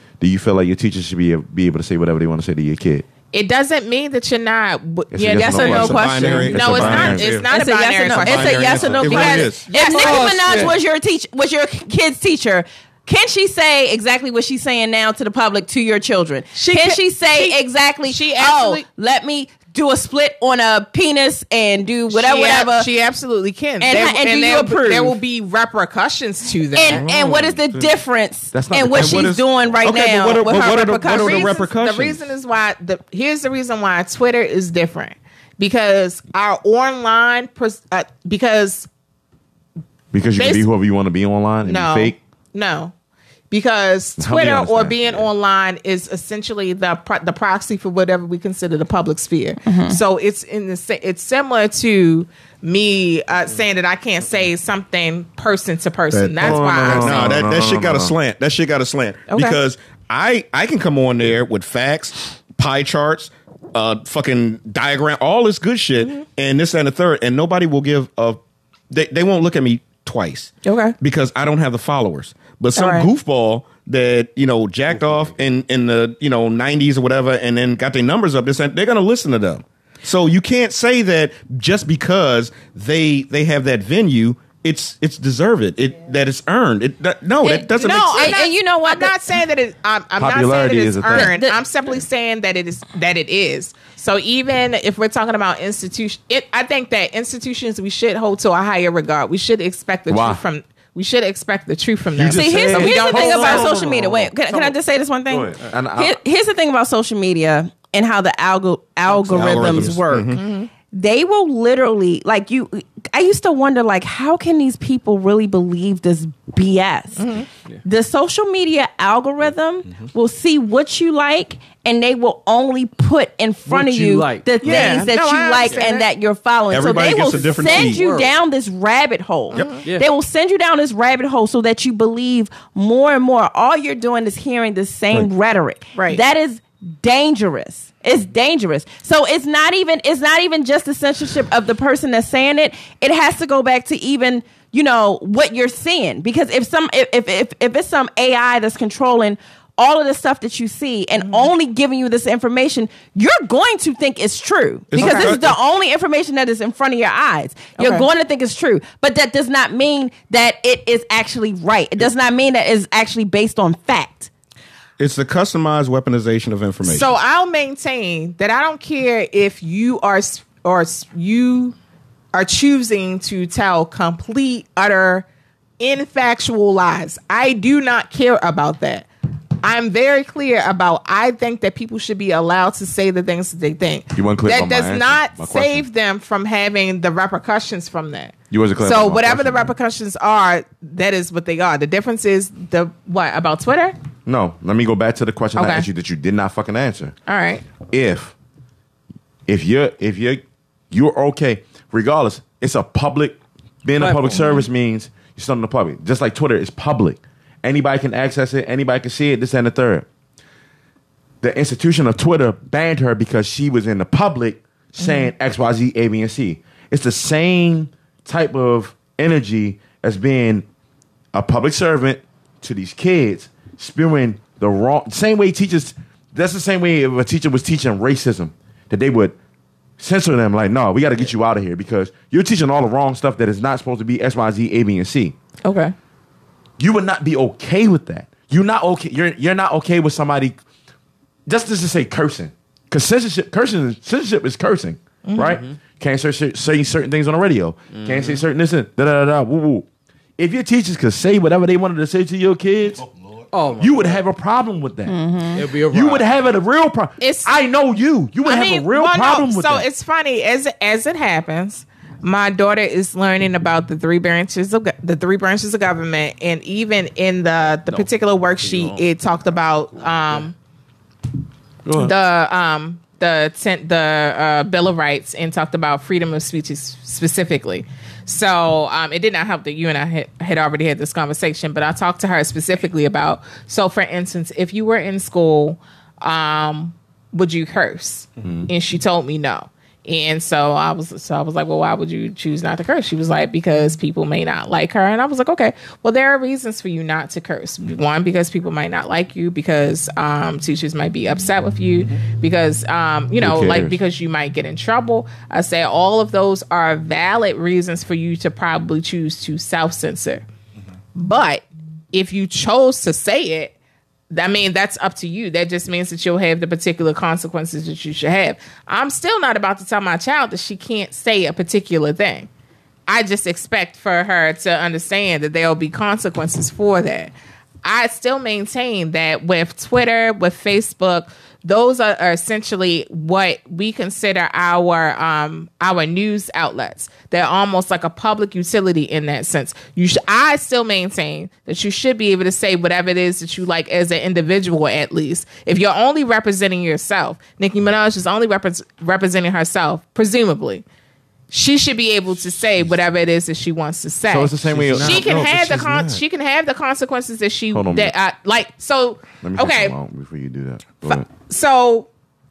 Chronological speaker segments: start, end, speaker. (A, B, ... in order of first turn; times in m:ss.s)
0:00.2-0:03.0 A
0:03.3-0:10.5 B
0:05.1-0:07.4 A
0:05.4-0:06.6 C
0:05.6-0:07.5 D
0:07.3-0:22.9 C
0:08.0-0:09.7 D
0:09.9-0:10.8 E
0:16.5-0:18.8 B
0:22.1-0:27.0 B
0:23.8-0:25.2 C
0:26.7-0:31.6 C
0:26.9-0:27.9 D
0:28.5-0:29.3 A
0:28.9-0:32.2 D
0:30.5-0:38.9 B
0:40.1-0:42.2 A
0:40.4-0:40.6 B
0:41.6-0:42.9 B
0:43.5-0:57.4 B
0:44.2-0:45.3 A
0:49.6-0:50.0 C
0:56.1-1:08.4 D
0:56.4-0:58.1 A
0:59.3-0:59.6 B
1:08.9-1:28.4 D
1:10.6-1:10.9 B
1:12.7-1:13.1 B
1:27.5-1:43.7 B
1:28.1-1:29.2 C
1:30.2-1:31.4 A
1:31.1-1:31.6 C
1:40.1-1:40.4 A
1:42.1-1:44.7 A
1:42.2-2:44.3 C
1:45.3-1:46.2 A
1:49.3-1:50.4 D
1:49.3-1:49.9 A
1:50.3-1:50.7 B
1:57.2-1:57.5 B
2:03.7-2:05.1 E
2:04.6-2:06.1 B
2:06.7-2:08.0 D
2:06.9-2:08.3 E
2:09.5-2:09.8 B
2:15.9-2:16.2 B
2:31.2-2:31.5 B
2:34.9-2:35.6 D
2:35.0-2:35.3 B
2:37.8-2:38.1 B
2:45.0-2:47.1 D
2:46.8-2:51.7 B
2:52.3-2:55.2 B
2:55.8-2:59.1 B
2:59.6-3:14.0 B
3:04.1-3:05.8 A
3:08.5-3:09.7 A
3:14.2-3:17.1 A
3:15.6-3:15.9 B
3:17.3-3:17.7 B
3:17.8-3:18.3 A
3:19.5-3:30.1 A
3:24.0-3:24.6 E
3:31.4-3:40.6 A
3:35.0-3:35.3 B
3:41.3-3:49.4 A
3:50.0-3:55.3 A
3:55.6-3:55.9 B
3:56.8-4:00.6 A
4:01.5-4:09.8 A
4:05.2-4:05.6 B
4:07.9-4:08.4 E
4:10.4-4:13.0 A
4:13.5-4:14.2 E
4:13.8-4:15.2 A
4:15.1-4:15.6 C
4:15.6-4:16.3 E
4:15.8-4:19.8 A
4:17.2-4:17.6 B
4:18.4-4:30.5 B
4:28.6-4:29.0 E
4:31.8-4:32.1 A
4:31.9-5:10.4 B
5:03.4-5:04.0 A
5:11.1-5:13.8 B
5:14.3-5:22.5 B
5:23.1-5:27.3 B
5:27.8-5:50.8 B
5:51.5-6:00.0 B
5:54.3-5:55.3 A
5:54.7-5:56.2 D
5:57.7-5:58.1 A
5:59.4-6:01.3 A
6:01.0-6:02.1 B